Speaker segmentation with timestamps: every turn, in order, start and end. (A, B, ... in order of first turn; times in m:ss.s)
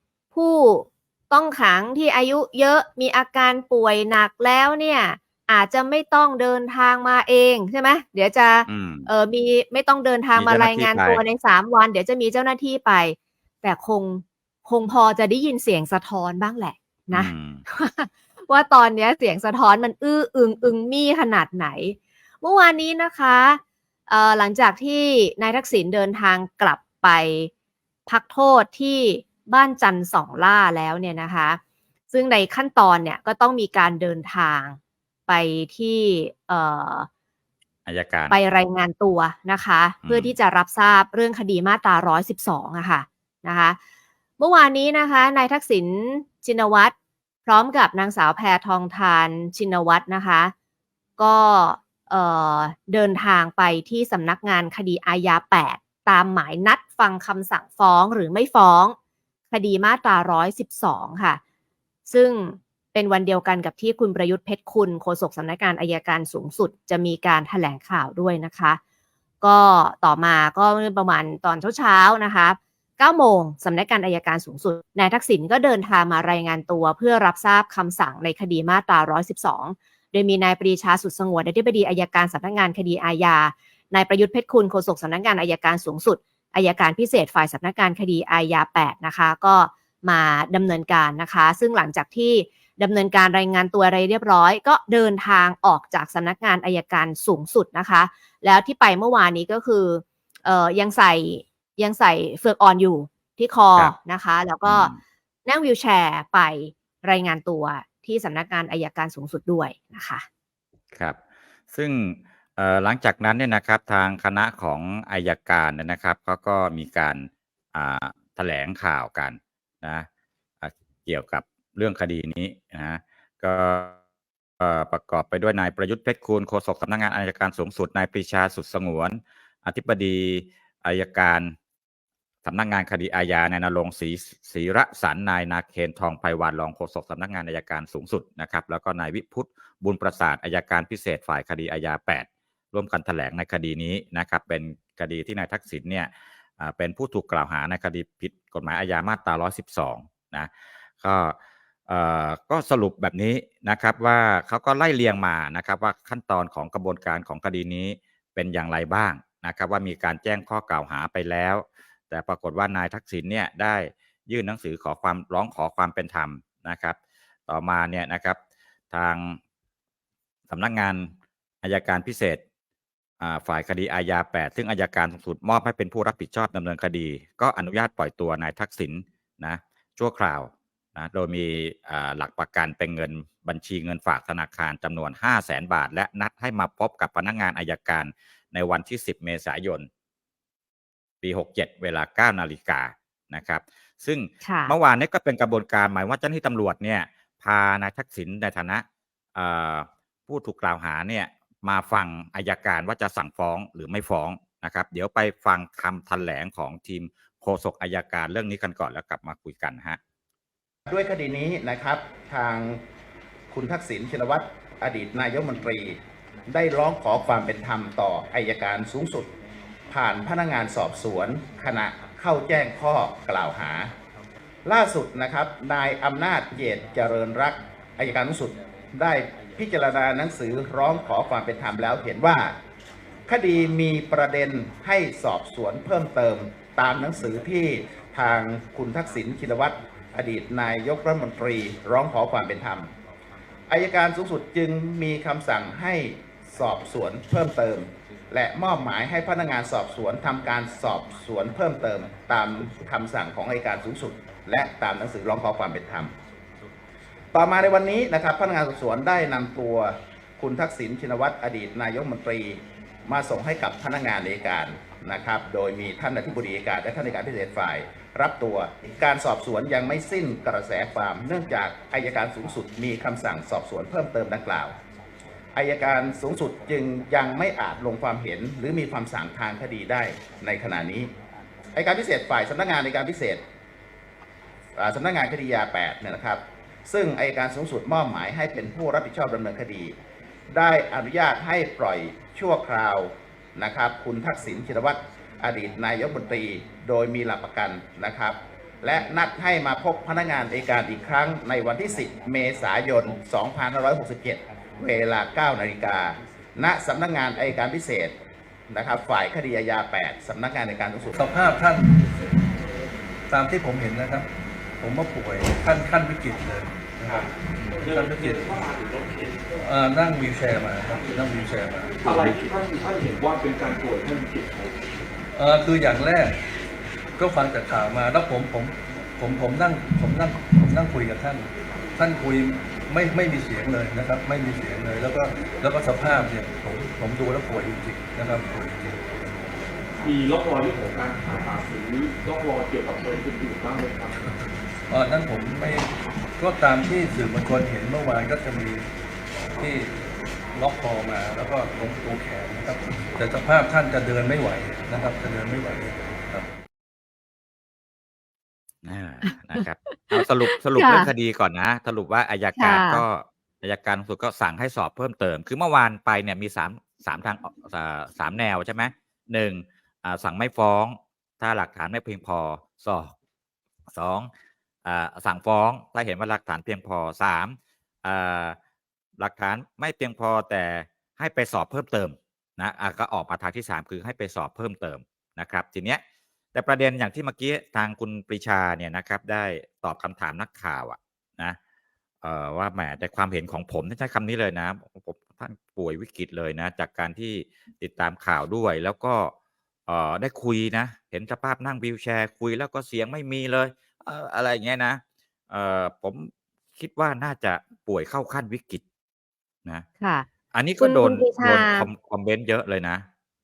0:00.3-0:27.5 A
0:08.7-0:09.1 B
0:10.4-0:11.2 B
0:17.1-0:17.6 B
0:28.1-0:31.6 A
0:32.1-0:37.1 A
0:37.9-0:38.4 B
0:38.3-0:43.8 A
0:40.0-0:40.3 B
0:44.4-0:46.9 A
0:47.5-0:50.5 A
0:51.2-0:59.0 A
0:59.5-1:01.4 A
1:02.1-1:08.8 A
1:09.4-1:44.9 A
1:44.6-1:45.0 B
1:45.5-1:50.3 A
1:51.7-2:00.1 B
2:00.6-2:04.0 B
2:04.6-2:11.5 B
2:12.4-2:30.5 B
2:31.0-2:31.4 B
2:31.9-2:47.0 B
2:47.5-2:48.4 B
2:48.9-2:49.4 B
2:50.5-2:52.4 B
2:53.2-3:09.9 B
3:11.2-3:18.8 B
3:14.4-3:14.8 A
3:19.4-3:30.0 B
3:30.9-3:32.8 C
3:33.5-3:36.0 C
3:36.5-3:39.3 C
3:39.9-3:43.9 C
3:44.6-3:52.6 C
3:53.3-4:02.9 C
4:03.7-4:16.1 C
4:17.3-4:34.7 C
4:35.6-4:41.1 C
4:41.8-4:43.4 C
4:44.8-4:49.9 C
4:50.5-5:08.2 C
5:08.7-5:11.2 C
5:11.1-5:12.1 D
5:13.3-5:14.3 D
5:14.8-5:17.3 D
5:17.8-5:19.6 E
5:17.8-5:18.6 D
5:19.6-5:22.5 D
5:22.0-5:24.8 E
5:25.3-5:26.4 D
5:27.2-5:39.0 D
5:40.0-5:44.3 E
5:44.9-5:45.9 D
5:46.4-5:48.9 D
5:49.5-5:50.0 D
5:50.6-5:56.5 D
5:58.8-6:13.1 B
5:59.9-6:01.1 A
6:02.6-6:03.0 A
6:13.9-6:14.3 B
6:14.8-6:18.6 B
6:19.2-6:26.0 B
6:26.5-6:31.6 B
6:32.2-6:39.3 B
6:39.9-6:48.8 B
6:50.0-6:50.3 A
6:50.5-6:53.0 B
6:50.8-6:51.9 A